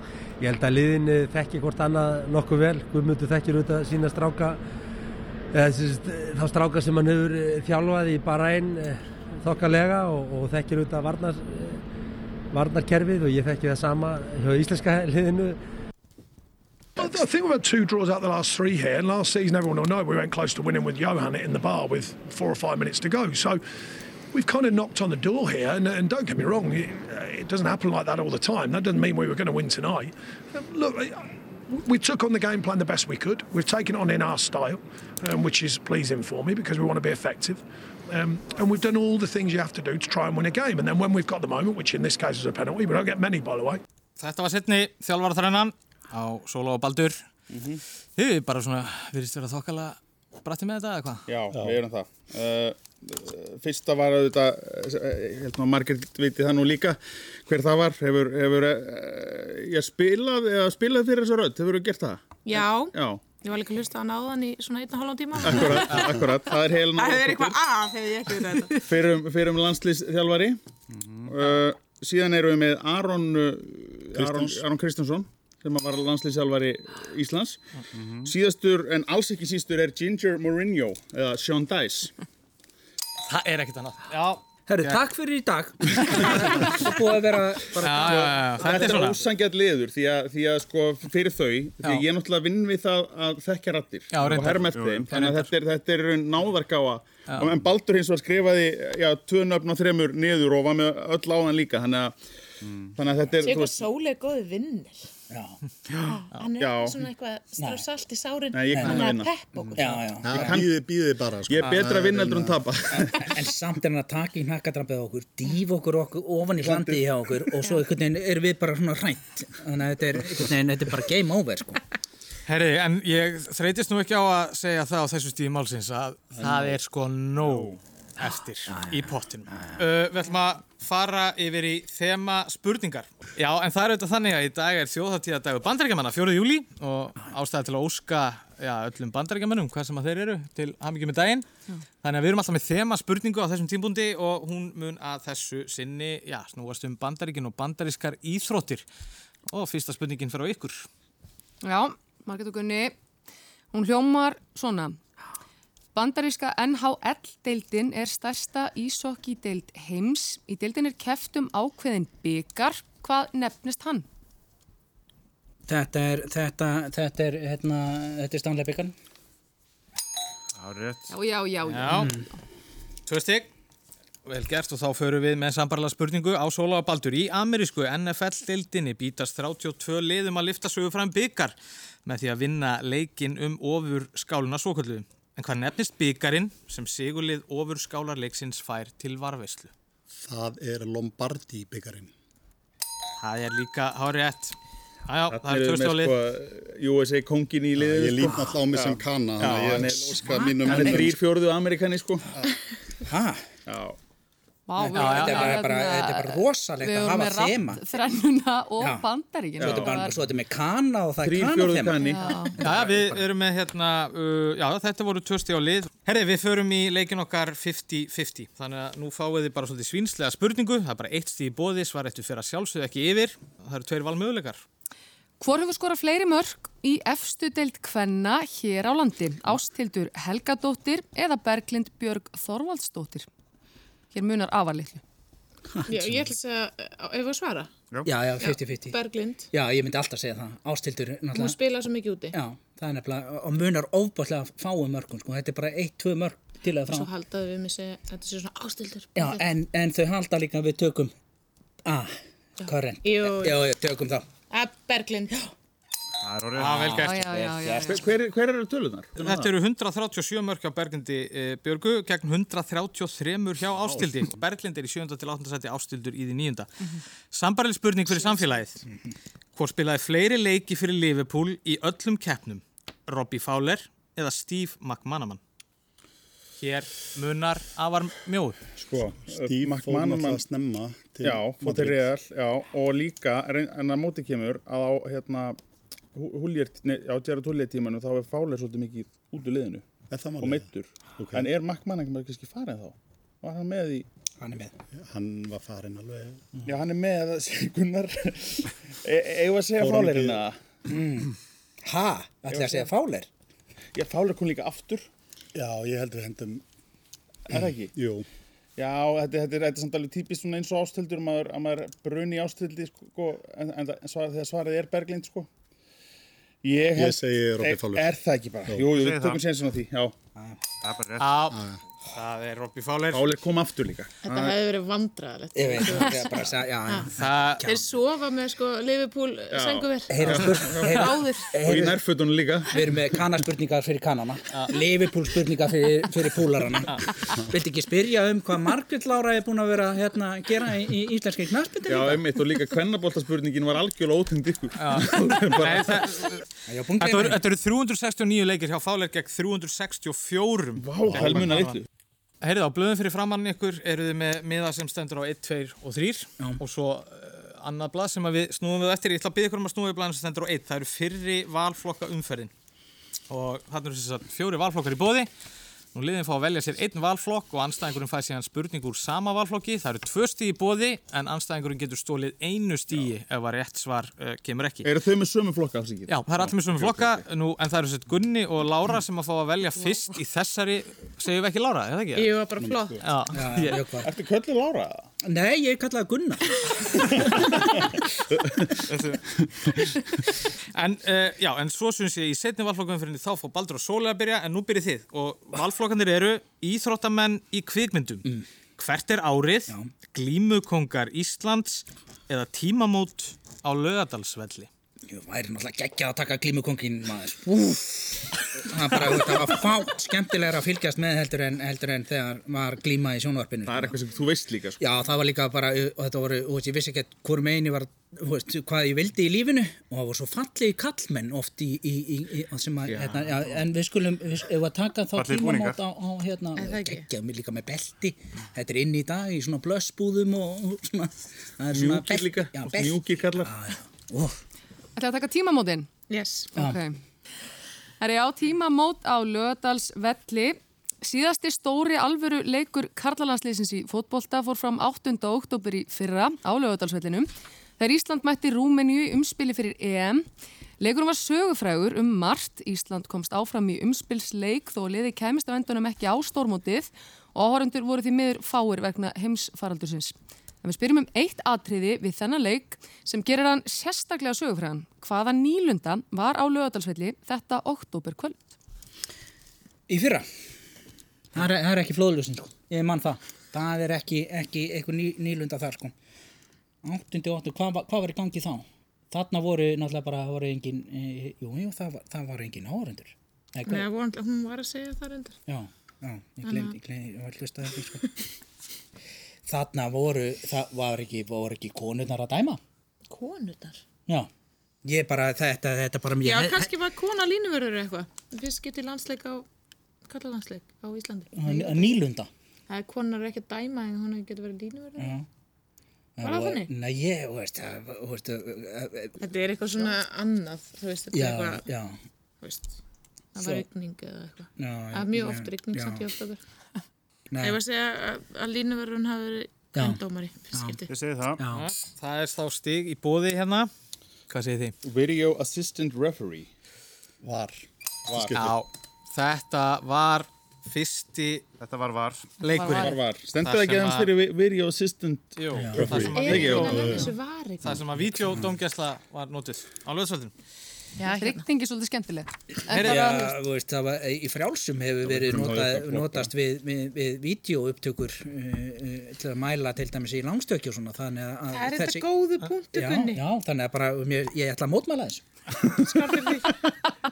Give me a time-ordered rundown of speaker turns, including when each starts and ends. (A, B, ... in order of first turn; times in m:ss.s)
0:00.4-0:04.6 A
0:05.5-0:11.8 A
0:12.5-0:15.6 A
0:17.0-0:23.6 B
0:24.3-0:43.8 B
0:44.2-0:47.2 C
0:47.5-0:47.8 D
0:48.2-0:51.2 C
0:51.3-1:03.2 D
1:02.4-1:06.2 E
1:05.4-1:07.6 D
1:06.9-1:08.8 E
1:08.8-1:10.6 D
1:10.9-1:11.3 F
1:11.2-1:17.6 D
1:14.2-1:14.6 G
1:17.9-1:18.3 F
1:18.2-1:22.1 D
1:23.2-1:25.0 C
1:24.7-1:29.2 H
1:27.8-1:29.2 C
1:28.4-1:42.2 D
1:34.1-1:35.5 C
1:34.2-1:35.1 F
1:42.6-1:43.0 F
1:42.9-1:43.8 D
1:43.4-1:45.1 E
1:45.3-1:45.6 H
1:46.0-1:50.0 E
1:46.6-1:47.0 D
1:47.6-1:47.8 H
1:48.5-1:49.4 D
1:48.7-1:50.6 H
1:50.2-1:52.6 G
1:50.3-1:50.7 D
1:51.5-1:53.3 D
1:53.0-2:01.8 H
1:56.6-1:57.0 D
2:02.5-2:21.4 C
2:07.4-2:07.8 F
2:08.7-2:09.8 H
2:22.0-2:28.8 C
2:29.5-2:30.9 C
2:31.6-2:32.9 I
2:33.7-2:35.0 I
2:35.9-2:44.0 I
2:45.7-2:48.9 H
2:50.5-2:51.2 F
2:51.1-2:52.2 I
2:51.7-2:52.1 C
2:51.9-2:52.2 H
2:53.1-2:53.5 C
2:54.2-3:01.5 C
3:02.0-3:09.7 C
3:10.1-3:12.1 G
3:13.2-3:14.6 C
3:15.1-3:16.2 C
3:15.3-3:22.3 D
3:17.8-3:21.2 G
3:18.2-3:18.6 H
3:20.2-3:21.1 H
3:23.1-3:23.4 H
3:23.6-3:24.0 D
3:24.7-3:30.2 I
3:24.8-3:27.8 H
3:25.0-3:25.5 C
3:28.8-3:29.0 H
3:29.6-3:30.0 D
3:29.6-3:33.0 H
3:31.2-3:32.9 D
3:32.0-3:32.6 I
3:32.6-3:44.6 C
3:45.4-3:53.2 I
3:54.1-3:55.0 I
3:55.7-3:56.3 H
3:55.9-3:57.7 E
3:58.0-3:59.0 H
3:58.4-3:59.5 E
3:59.5-4:01.6 H
4:01.3-4:02.4 E
4:02.3-4:07.1 H
4:06.9-4:09.4 E
4:09.2-4:11.1 H
4:11.8-4:14.2 H
4:12.6-4:13.6 E
4:14.5-4:15.4 E
4:16.2-4:17.1 F
4:16.6-4:17.2 C
4:16.9-4:17.9 H
4:16.9-4:18.2 I
4:17.8-4:19.5 D
4:19.2-4:26.7 C
4:23.9-4:24.1 F
4:27.3-4:28.8 C
4:29.5-4:35.4 C
4:36.6-4:38.6 C
4:38.8-4:40.4 D
4:39.3-4:42.0 G
4:41.2-4:45.6 D
4:46.1-4:49.8 D
4:50.1-4:50.6 G
4:50.4-4:54.0 D
4:51.2-4:51.5 G
4:54.4-4:54.7 H
4:54.9-4:56.5 G
4:56.6-5:00.6 D
4:59.8-5:00.4 G
5:00.9-5:01.3 H
5:01.8-5:03.3 H
5:02.5-5:02.9 D
5:03.9-5:05.1 D
5:05.5-5:06.6 G
5:07.5-5:07.9 D
5:07.5-5:08.2 G
5:08.8-5:15.5 D
5:16.6-5:20.1 D
5:17.0-5:18.1 G
5:18.9-5:19.4 F
5:20.8-5:21.5 F
5:21.2-5:23.3 C
5:23.1-5:24.6 D
5:24.2-5:27.1 E
5:25.5-5:27.9 H
5:27.1-5:27.6 C
5:27.6-5:31.5 E
5:29.5-5:31.0 D
5:30.1-5:32.0 H
5:31.5-5:32.9 D
5:32.7-5:42.2 H
5:41.9-5:46.2 D
5:44.8-5:46.4 C
5:46.7-5:47.4 H
5:47.0-5:51.8 C
5:50.8-5:51.8 D
5:52.4-6:02.5 C
6:03.3-6:05.3 C
6:05.9-6:14.9 C
6:14.8-6:17.2 D
6:16.1-6:22.4 C
6:22.1-6:23.0 E
6:23.0-6:23.8 C
6:23.3-6:24.1 H
6:23.9-6:25.1 D
6:25.2-6:27.8 H
6:28.9-6:29.2 C
6:29.8-6:44.7 C
6:45.1-6:53.9 H
6:53.6-6:54.8 D
6:54.8-7:14.4 H
7:05.1-7:05.8 F
7:06.6-7:07.1 E
7:11.7-7:13.5 D
7:15.0-7:15.9 I
7:16.1-7:16.5 E
7:16.5-7:17.0 I
7:18.0-7:30.2 I
7:30.8-7:48.4 I
7:49.9-7:50.2 H
7:51.3-7:55.9 H
7:56.8-8:03.9 H
8:03.6-8:05.4 E
8:05.5-8:08.2 H
8:06.4-8:06.7 E
8:09.4-8:12.6 H
8:13.1-8:13.8 E
8:14.8-8:16.7 H
8:16.2-8:19.4 E
8:20.1-8:22.0 E
8:21.3-8:22.3 H
8:22.7-8:25.1 E
8:25.0-8:25.2 H
8:26.2-8:29.2 H
8:26.2-8:26.7 E
8:29.2-8:31.7 E
8:31.1-8:32.0 H
8:32.4-8:32.8 E
8:33.3-8:36.4 E
8:34.6-8:36.1 H
8:37.3-8:37.6 H
8:37.4-8:40.9 E
8:39.7-8:40.0 H
8:40.5-8:40.8 H
8:40.9-8:41.4 F
8:41.4-8:41.7 H
8:41.5-8:43.7 C
8:44.3-8:44.7 C
8:44.8-8:46.5 D
8:47.2-8:48.6 G
8:48.3-8:51.4 C
8:51.6-8:52.4 F
8:52.4-8:54.1 C
8:52.4-8:53.0 I
8:52.7-8:56.8 D
8:55.4-8:57.1 C
8:55.6-8:56.0 H
8:55.6-8:57.0 G
8:56.1-8:57.8 E
8:57.6-9:00.3 C
9:01.0-9:01.4 E
9:01.0-9:03.4 I
9:02.7-9:03.0 C
9:02.8-9:12.1 H
9:05.0-9:06.3 D
9:11.5-9:13.2 E
9:12.7-9:16.2 H
9:15.8-9:16.5 E